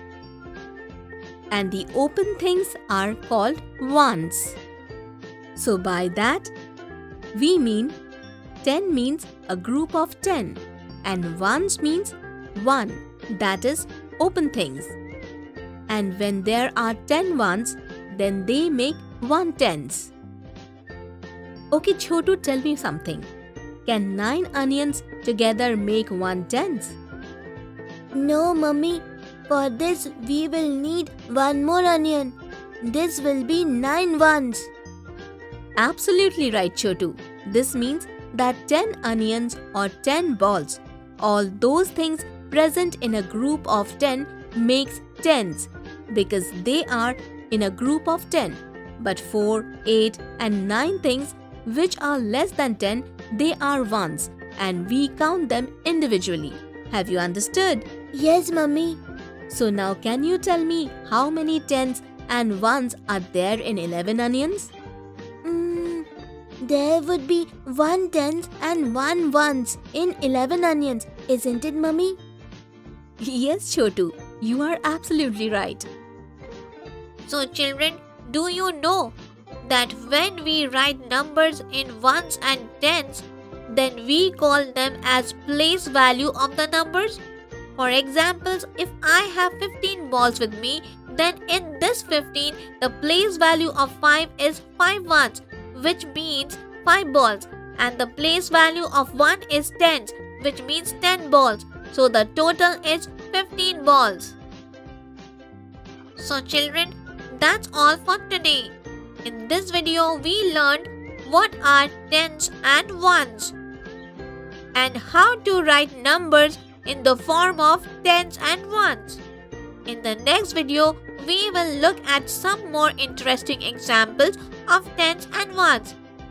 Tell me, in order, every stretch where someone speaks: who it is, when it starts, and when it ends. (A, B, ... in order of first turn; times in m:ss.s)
0:01.5-0:04.6 A
0:05.6-0:06.5 A
0:07.3-0:08.0 A
0:08.6-0:15.0 A
0:15.9-0:20.1 A
0:21.7-0:23.3 A
0:23.9-0:27.0 A
0:28.2-0:34.7 B
0:35.8-0:57.9 A
0:58.1-0:59.0 B
0:59.5-1:04.7 A
1:05.4-1:06.1 B
1:06.6-1:12.2 B
1:13.2-1:15.9 A
1:17.3-1:27.2 C
1:27.8-1:44.4 C
1:46.2-1:48.7 C
1:49.2-1:53.6 C
1:54.7-1:59.2 C
1:59.9-2:06.0 C